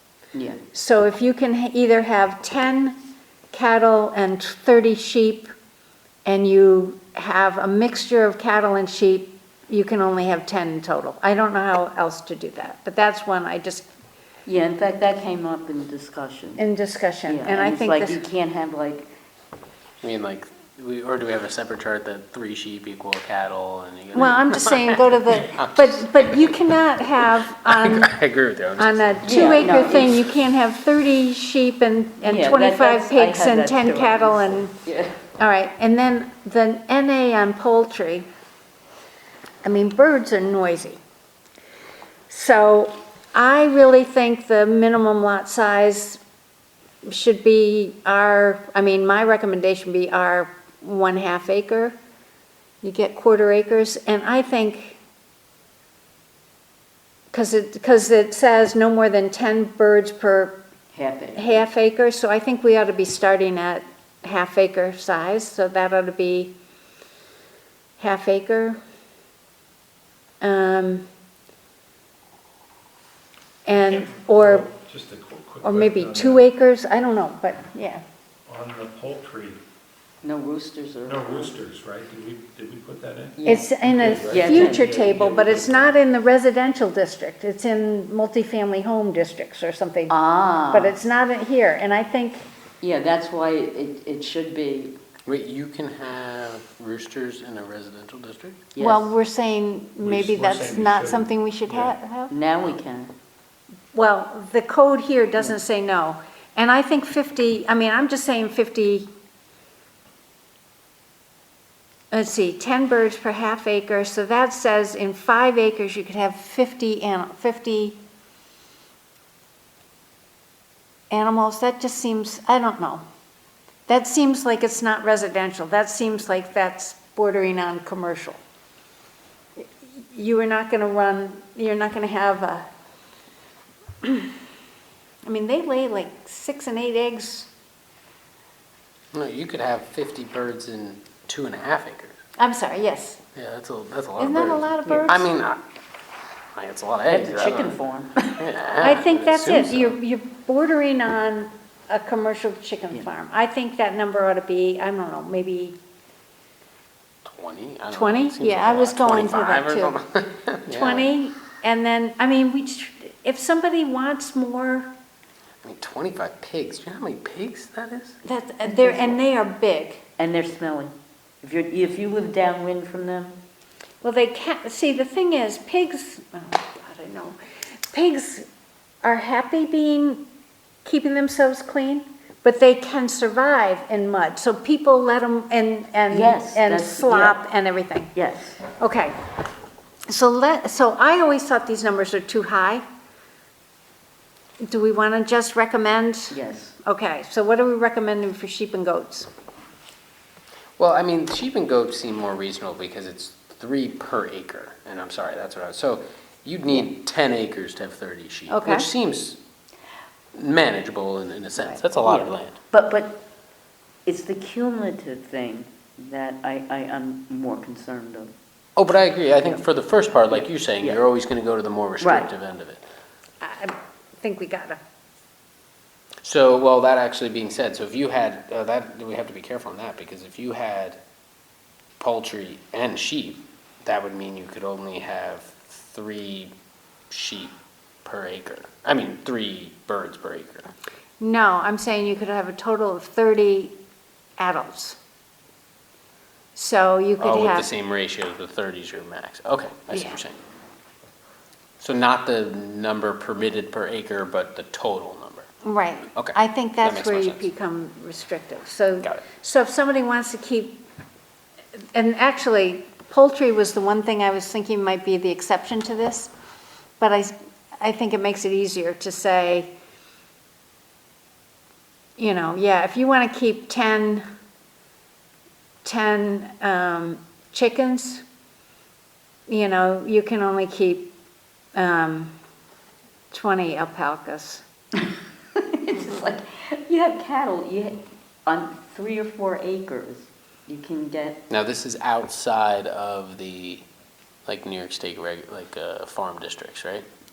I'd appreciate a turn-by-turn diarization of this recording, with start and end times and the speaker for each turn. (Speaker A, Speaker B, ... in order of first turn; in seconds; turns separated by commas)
Speaker A: 0.3-0.6, Speaker B: 0.7-3.0, Speaker B: 3.5-5.5, Speaker B: 6.2-13.9, Speaker A: 14.4-16.6, Speaker B: 16.6-18.2, Speaker A: 17.2-19.1, Speaker C: 20.0-26.6, Speaker B: 24.1-28.1, Speaker C: 27.2-30.0, Speaker B: 28.8-34.7, Speaker A: 29.2-30.2, Speaker A: 32.2-35.2, Speaker B: 35.4-38.3, Speaker B: 39.6-41.0, Speaker B: 42.3-46.2, Speaker B: 47.0-52.0, Speaker B: 52.8-55.0, Speaker B: 57.3-60.6, Speaker A: 60.9-61.6, Speaker B: 61.4-66.5, Speaker B: 68.0-68.8, Speaker B: 70.4-71.0, Speaker B: 73.6-74.7, Speaker D: 73.7-76.5, Speaker B: 75.6-78.0, Speaker D: 78.5-79.6, Speaker A: 80.2-81.5, Speaker D: 81.0-85.9, Speaker A: 83.3-83.7, Speaker B: 83.4-90.1, Speaker A: 84.2-85.0, Speaker A: 90.1-91.0, Speaker B: 90.7-92.4, Speaker A: 92.8-95.0, Speaker C: 95.2-98.7, Speaker A: 98.7-99.1, Speaker B: 98.8-102.3, Speaker D: 100.0-102.0, Speaker A: 102.3-103.1, Speaker B: 103.9-109.1, Speaker B: 112.1-118.0, Speaker B: 121.1-123.0, Speaker B: 123.9-128.4, Speaker B: 129.6-132.7, Speaker B: 134.0-134.3, Speaker B: 135.2-137.5, Speaker C: 139.1-142.2, Speaker B: 142.4-143.2, Speaker C: 143.3-145.7, Speaker B: 144.2-145.3, Speaker C: 146.5-147.8, Speaker A: 147.1-148.5, Speaker C: 148.4-150.0, Speaker B: 148.8-155.8, Speaker C: 157.2-161.2, Speaker B: 157.9-160.0, Speaker B: 160.7-164.9, Speaker C: 165.6-168.2, Speaker B: 168.2-170.0, Speaker A: 168.6-169.2, Speaker A: 170.2-173.4, Speaker B: 174.0-177.4, Speaker B: 177.9-178.5, Speaker B: 179.0-180.2, Speaker B: 180.8-188.1, Speaker A: 186.1-187.4, Speaker A: 188.1-188.6, Speaker B: 188.7-189.2, Speaker B: 190.1-192.8, Speaker B: 194.6-199.3, Speaker A: 196.3-196.7, Speaker C: 200.8-209.4, Speaker B: 208.5-208.9, Speaker C: 210.3-212.6, Speaker A: 212.0-213.2, Speaker A: 214.1-218.3, Speaker C: 218.8-222.8, Speaker A: 220.3-221.0, Speaker A: 222.0-222.3, Speaker B: 223.4-224.8, Speaker C: 226.2-231.0, Speaker C: 232.0-236.5, Speaker C: 237.1-240.7, Speaker B: 241.2-243.8, Speaker B: 244.4-245.0, Speaker B: 246.5-247.7, Speaker C: 247.2-250.4, Speaker B: 249.9-250.2, Speaker C: 251.8-255.5, Speaker B: 255.6-260.8, Speaker C: 256.1-257.4, Speaker B: 261.9-266.3, Speaker B: 267.0-269.7, Speaker B: 272.2-274.2, Speaker B: 275.8-278.2, Speaker B: 279.5-281.1, Speaker B: 281.7-282.3, Speaker B: 283.3-284.6, Speaker A: 285.7-291.4, Speaker C: 291.5-293.8, Speaker C: 294.4-297.1